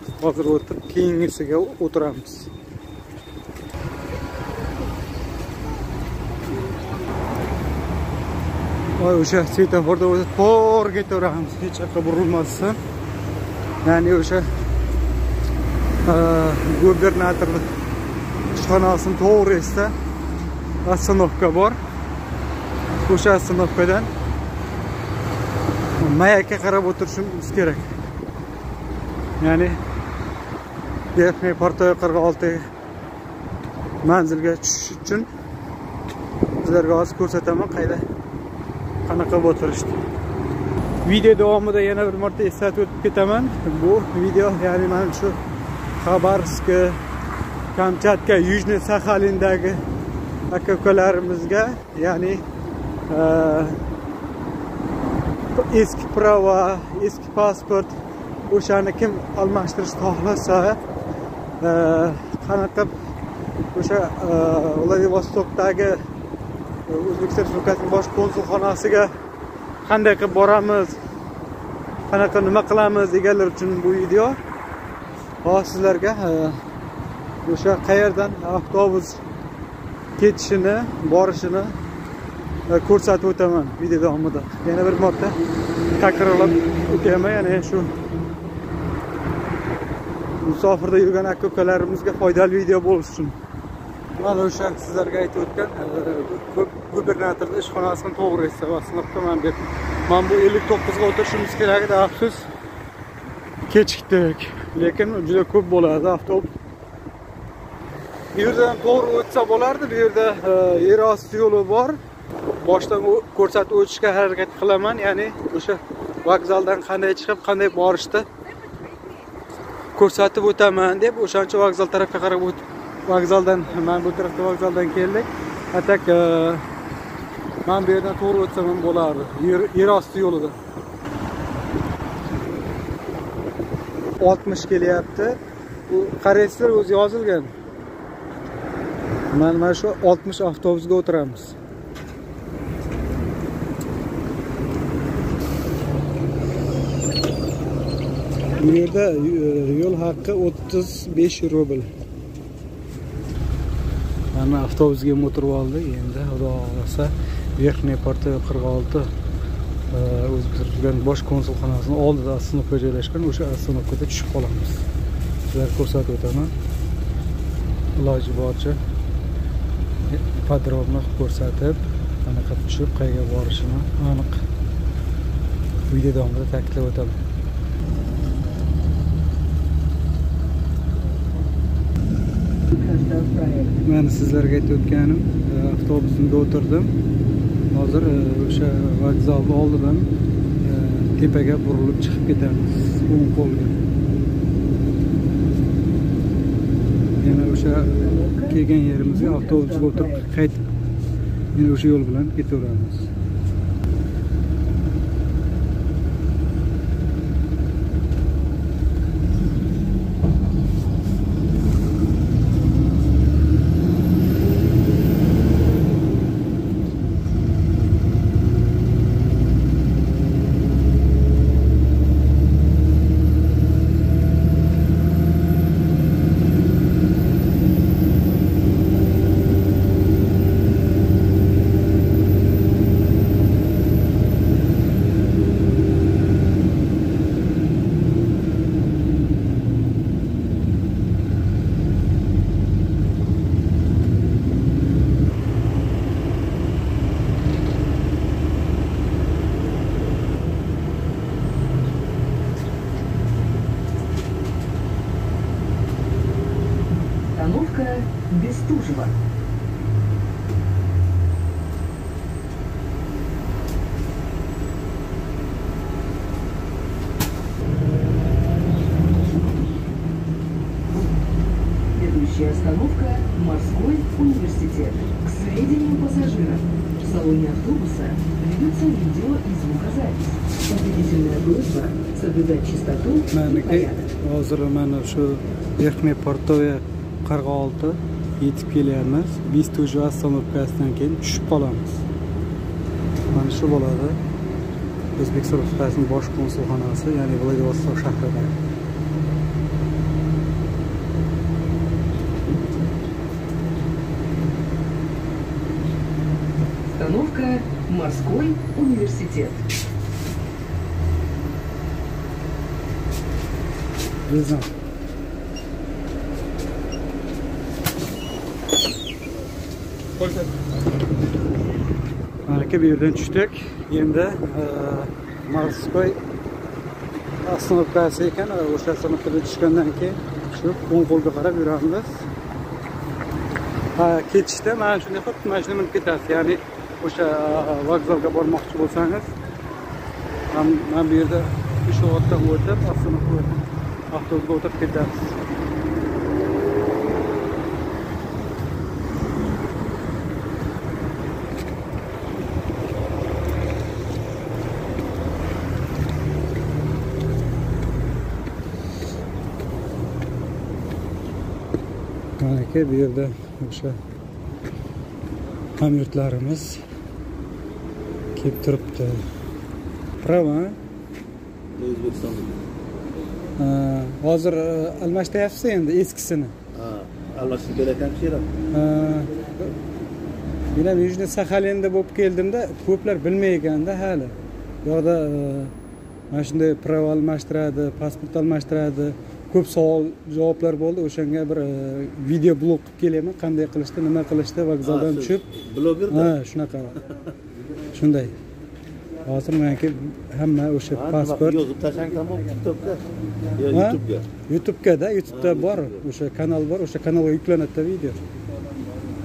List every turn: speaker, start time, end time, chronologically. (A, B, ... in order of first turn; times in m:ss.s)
0:00.2-0:02.5 A
0:09.0-0:12.8 A
0:13.8-0:14.5 A
0:16.0-0:17.7 A
0:18.5-0:19.9 A
0:20.8-0:21.8 A
0:23.0-0:24.1 A
0:26.0-0:27.9 A
0:29.4-0:29.8 A
0:31.2-0:32.7 A
0:34.0-0:35.3 A
0:36.6-0:38.1 A
0:39.0-0:40.0 A
0:41.0-0:45.4 A
0:46.0-0:47.0 A
0:47.7-0:49.8 A
0:50.5-0:52.5 A
0:53.1-0:53.8 A
0:55.6-0:58.0 A
0:58.5-1:00.8 A
1:01.6-1:02.9 A
1:03.7-1:06.0 A
1:06.9-1:09.1 A
1:09.8-1:11.0 A
1:12.1-1:14.4 A
1:15.4-1:16.6 A
1:17.4-1:19.2 A
1:20.2-1:21.8 A
1:22.7-1:25.4 A
1:26.0-1:27.9 A
1:30.4-1:33.4 A
1:34.2-1:42.5 A
1:43.7-1:46.5 A
1:48.3-1:52.0 A
1:52.6-1:58.3 A
2:00.0-2:06.6 A
2:07.6-2:10.6 A
2:14.2-2:15.4 A
2:15.9-2:17.5 A
2:19.3-2:21.6 A
2:28.6-2:31.9 A
2:34.3-2:39.1 A
2:39.9-2:44.9 A
2:45.5-2:46.5 A
2:48.0-2:48.8 A
2:50.1-2:54.4 A
2:55.9-2:57.2 A
3:02.7-3:03.8 B
3:03.8-3:06.9 A
3:07.7-3:10.1 A
3:10.6-3:13.8 A
3:17.2-3:20.6 A
3:17.8-3:20.3 B
3:21.6-3:23.1 A
4:17.3-4:19.2 B
4:31.9-4:44.1 B
4:43.3-4:52.0 A
4:53.3-4:54.2 A
4:55.2-4:58.6 A
5:06.9-5:09.7 B
5:14.3-5:14.7 A
5:22.5-5:26.2 A
5:27.4-5:32.3 A
5:34.0-5:39.3 A
5:40.5-5:43.6 A
5:44.1-5:45.4 A
6:02.4-6:04.0 A
6:05.8-6:06.8 A
6:08.4-6:09.2 A
6:10.2-6:10.8 A
6:11.8-6:12.6 C
6:13.6-6:16.6 A
6:16.7-6:18.5 C
6:18.7-6:19.7 A
6:20.7-6:25.7 A
6:26.3-6:35.5 A
6:34.8-6:36.3 C
6:36.1-6:37.0 A
6:37.9-6:38.4 A
6:39.2-6:41.6 A
6:40.9-6:43.0 C
6:43.6-6:44.3 C
6:43.7-6:48.2 A
6:45.3-6:46.0 C